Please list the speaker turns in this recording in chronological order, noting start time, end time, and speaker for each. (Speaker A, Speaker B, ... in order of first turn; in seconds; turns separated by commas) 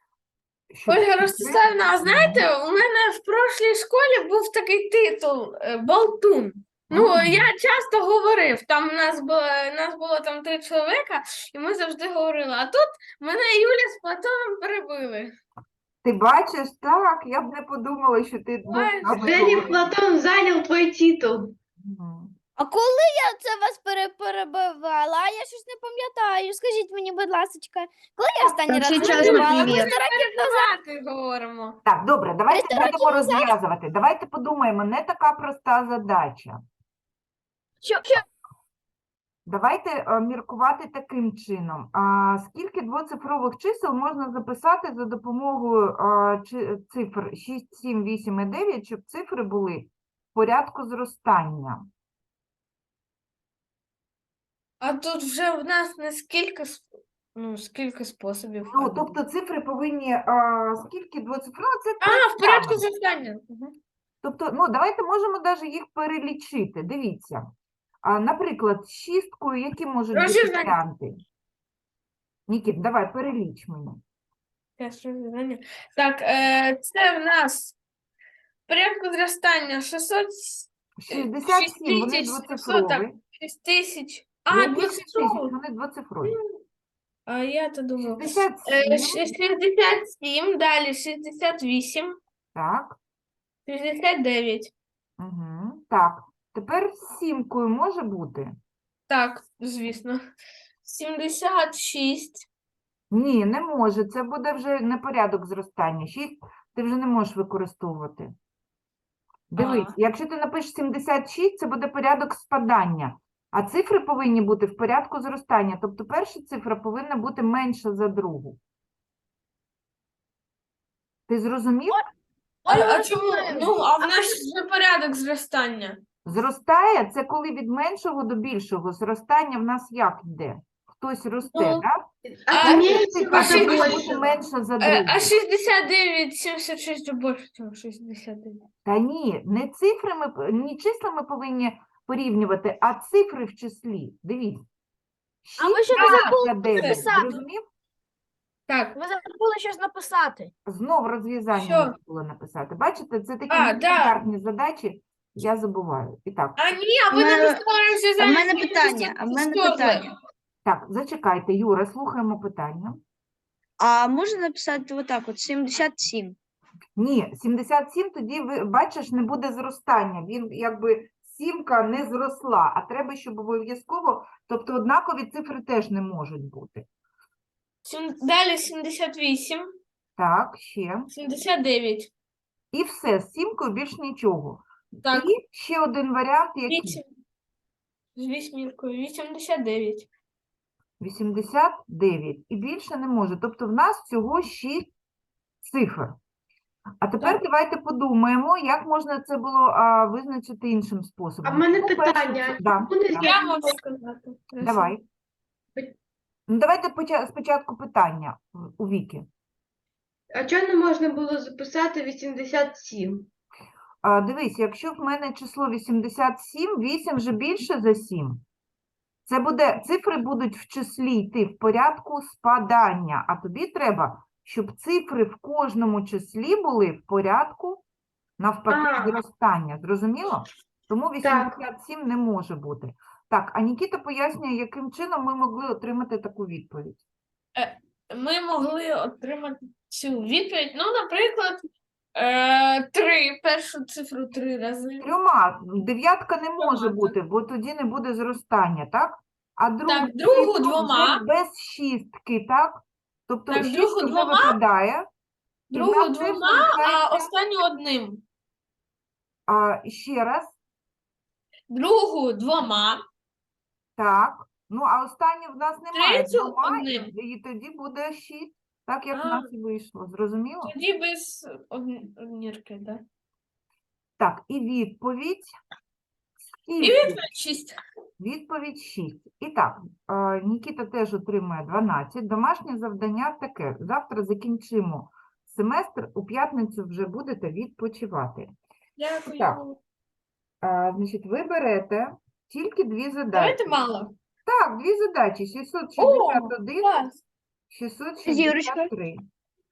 Speaker A: 0.7-2.5, Speaker B: 0.9-15.3, Speaker A: 6.9-7.5, Speaker A: 16.0-19.9, Speaker B: 18.7-19.7, Speaker C: 19.0-21.5, Speaker A: 21.8-22.4, Speaker D: 22.6-29.9, Speaker E: 28.7-29.9, Speaker B: 28.9-31.8, Speaker F: 29.0-30.6, Speaker A: 31.8-36.6, Speaker D: 32.6-33.2, Speaker F: 32.7-33.4, Speaker F: 37.8-38.2, Speaker A: 39.5-51.9, Speaker B: 54.8-59.2, Speaker A: 58.7-62.8, Speaker B: 62.0-63.7, Speaker A: 64.2-67.5, Speaker A: 68.0-71.2, Speaker B: 70.1-70.8, Speaker A: 72.5-74.0, Speaker B: 74.8-77.7, Speaker B: 78.7-85.5, Speaker A: 81.0-83.2, Speaker A: 84.5-86.4, Speaker B: 87.3-92.2, Speaker A: 88.0-89.2, Speaker A: 92.5-93.0, Speaker B: 93.7-94.7, Speaker A: 95.2-98.6, Speaker B: 99.1-100.2, Speaker B: 100.8-102.4, Speaker A: 103.1-108.3, Speaker A: 109.5-118.6, Speaker B: 109.6-109.9, Speaker A: 121.3-122.0, Speaker F: 122.6-124.4, Speaker B: 122.7-126.0, Speaker A: 126.2-132.1, Speaker B: 131.5-131.8, Speaker C: 132.2-134.3, Speaker B: 132.5-134.2, Speaker A: 132.6-135.3, Speaker B: 134.8-138.7, Speaker A: 138.8-144.6, Speaker A: 145.4-147.6, Speaker F: 145.6-147.4, Speaker B: 145.9-147.2, Speaker B: 148.7-149.0, Speaker F: 148.9-150.5, Speaker A: 150.7-156.7, Speaker B: 151.5-151.9, Speaker B: 153.5-154.2, Speaker B: 156.6-160.1, Speaker E: 157.1-157.6, Speaker E: 158.2-160.1, Speaker A: 160.6-163.0, Speaker E: 163.8-166.3, Speaker A: 167.0-176.8, Speaker B: 177.8-179.7, Speaker A: 180.2-181.1, Speaker B: 181.1-182.1, Speaker A: 182.7-187.0, Speaker B: 186.7-187.1, Speaker B: 188.2-190.1, Speaker A: 191.0-194.9, Speaker A: 195.6-196.2, Speaker A: 197.0-203.3, Speaker C: 201.4-203.8, Speaker B: 203.2-204.9, Speaker A: 204.6-205.0, Speaker A: 206.5-209.3, Speaker C: 210.3-213.3, Speaker A: 214.0-218.4, Speaker A: 219.3-227.8, Speaker A: 228.4-237.0, Speaker C: 228.7-229.2, Speaker C: 231.2-231.6, Speaker B: 237.6-245.1, Speaker A: 245.0-255.1, Speaker B: 246.6-247.1, Speaker B: 249.9-251.2, Speaker B: 253.5-254.6, Speaker B: 255.7-258.2, Speaker A: 255.7-257.3, Speaker A: 259.5-260.5, Speaker B: 261.7-263.0, Speaker A: 264.0-270.7, Speaker B: 265.9-267.1, Speaker B: 269.1-269.5, Speaker B: 270.6-273.0, Speaker A: 274.2-275.6, Speaker A: 276.5-277.2, Speaker B: 276.8-277.8, Speaker A: 278.2-288.5, Speaker B: 289.0-289.8, Speaker A: 289.2-289.6, Speaker A: 290.6-293.7, Speaker B: 293.3-294.1, Speaker A: 294.4-296.9, Speaker B: 296.0-297.1, Speaker A: 297.7-299.3, Speaker E: 298.2-298.9